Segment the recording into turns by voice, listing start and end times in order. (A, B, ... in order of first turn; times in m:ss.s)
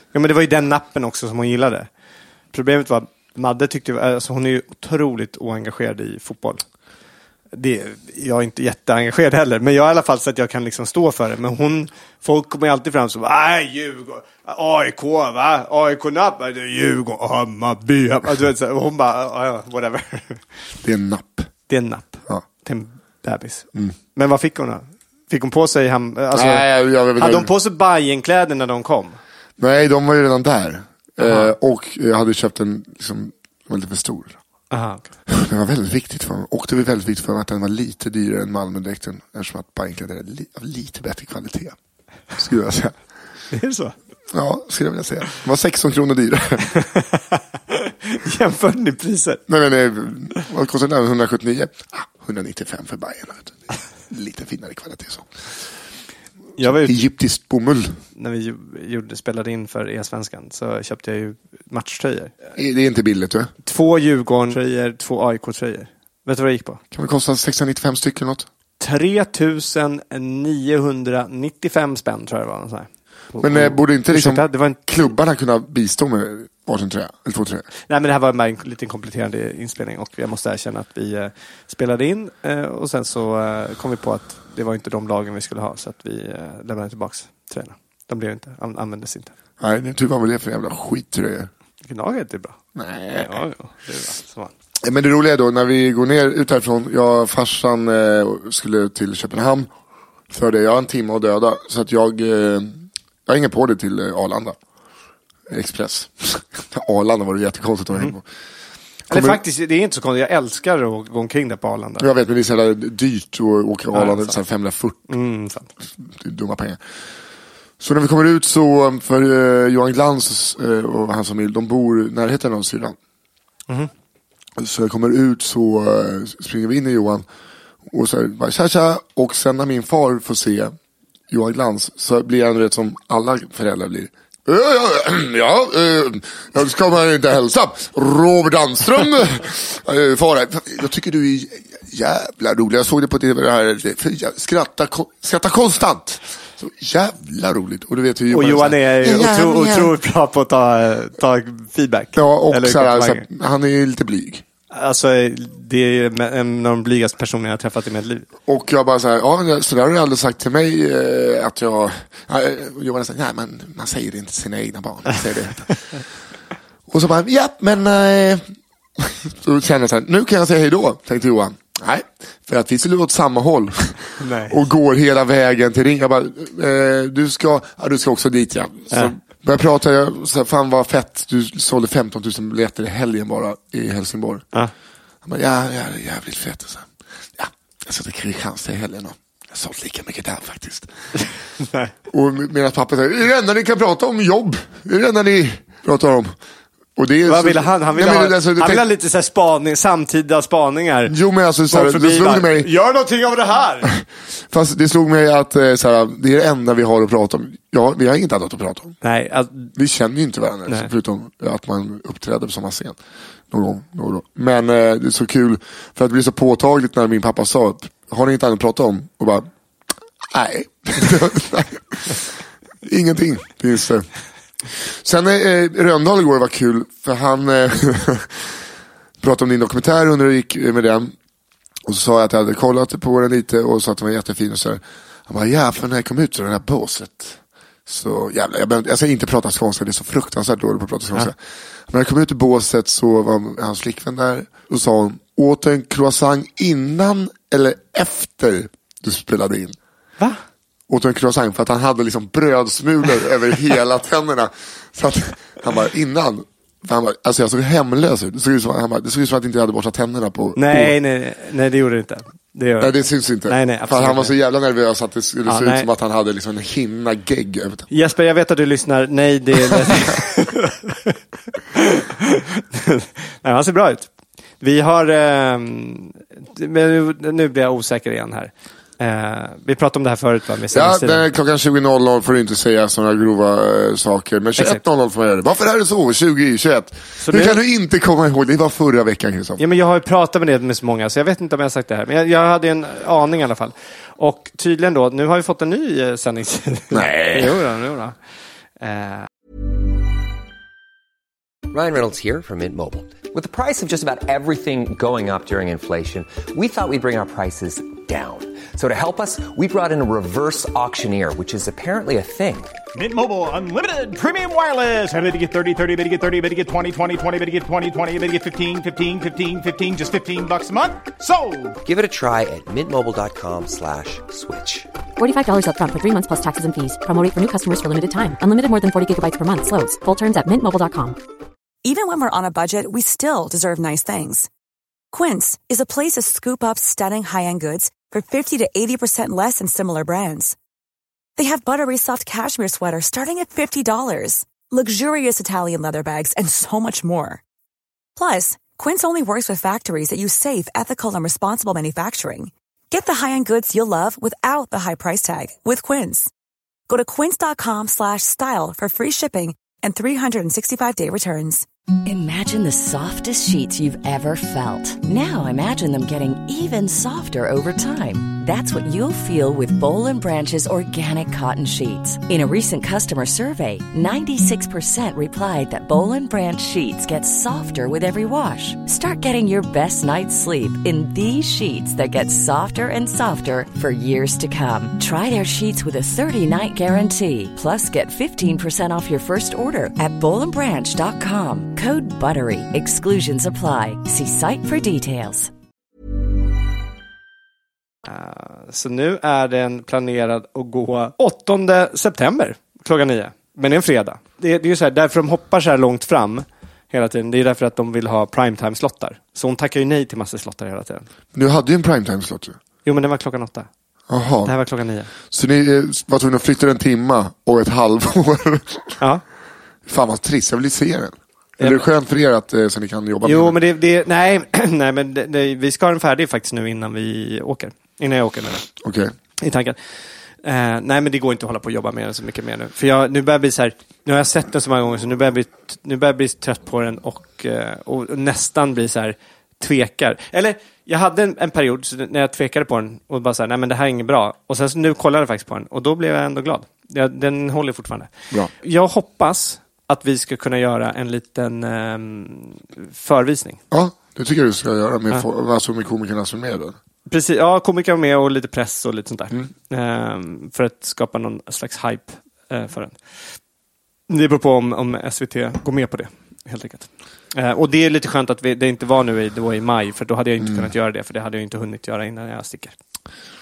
0:00.1-0:01.9 A
0:02.5-0:06.6 A
0:07.5-0:20.4 A
0:20.8-0:21.5 B
0:21.7-0:29.2 A
0:26.3-0:27.5 B
0:29.6-0:34.4 B
0:31.2-0:31.5 A
0:34.7-0:35.1 A
0:35.3-0:41.8 B
0:42.3-0:43.0 B
0:43.5-0:43.9 A
0:44.3-0:46.7 B
0:46.8-0:49.4 A
0:49.5-0:53.6 B
0:54.1-0:55.3 B
0:56.6-0:57.0 A
0:56.6-0:58.0 B
0:58.2-1:02.3 A
1:02.6-1:03.5 B
1:03.6-1:06.8 A
1:06.9-1:08.5 B
1:08.8-1:14.8 A
1:13.4-1:17.6 B
1:17.9-1:29.3 A
1:29.6-1:31.5 B
1:31.8-1:32.6 A
1:32.8-1:33.4 B
1:33.1-1:34.5 A
1:34.8-1:39.7 B
1:40.3-1:44.6 B
1:45.5-1:48.2 B
1:49.1-1:49.4 B
1:49.1-1:52.1 A
1:52.0-1:55.1 B
1:53.9-1:54.4 A
1:55.1-1:55.7 A
1:56.0-1:56.8 B
1:57.8-2:03.0 B
2:04.6-2:07.3 B
2:07.9-2:10.8 B
2:11.3-2:29.9 B
2:28.3-2:33.3 A
2:32.1-2:34.4 B
2:34.7-2:38.3 A
2:38.5-2:45.7 B
2:46.9-2:48.4 B
2:49.0-3:04.4 B
2:54.2-2:54.6 A
3:05.2-3:10.9 B
3:11.6-3:11.9 A
3:12.1-3:16.4 B
3:17.0-3:18.9 B
3:17.3-3:21.1 A
3:21.1-3:22.7 B
3:21.7-3:24.0 A
3:24.5-3:29.0 B
3:29.0-3:29.7 A
3:29.8-3:33.0 B
3:33.5-3:39.5 B
3:40.2-3:42.3 B
3:42.8-3:44.1 B
3:44.7-3:48.5 B
3:49.2-3:51.1 B
3:51.8-4:01.4 B
4:01.9-4:09.8 B
4:10.9-4:21.0 B
4:20.6-4:24.3 A
4:22.8-4:27.9 B
4:25.4-4:25.9 A
4:27.9-4:31.2 A
4:29.6-4:30.1 B
4:31.7-4:34.1 A
4:34.6-4:41.2 A
4:40.7-4:49.6 B
4:47.2-4:47.6 A
4:49.6-4:58.2 A
4:56.9-4:57.6 B
4:58.8-4:59.3 A
5:01.7-5:12.7 C
5:12.9-5:21.8 D
5:21.8-5:24.9 C
5:25.2-5:31.2 E
5:31.8-5:34.5 F
5:35.1-5:40.6 F
5:41.4-5:47.4 F
5:48.2-5:56.3 F
5:56.9-6:01.6 F
6:02.0-6:35.5 G
6:38.1-6:51.1 A
6:51.3-6:52.6 B
6:52.8-6:53.7 A
6:54.1-6:54.6 B
6:54.4-6:55.1 A
6:55.3-6:59.0 B
6:59.9-7:03.6 B
7:01.6-7:01.9 A
7:03.2-7:08.6 A
7:08.8-7:09.1 B
7:09.4-7:09.8 A
7:10.4-7:33.6 A
7:33.7-7:36.8 B
7:37.1-7:43.0 A
7:44.1-7:52.8 A
7:50.4-7:50.7 B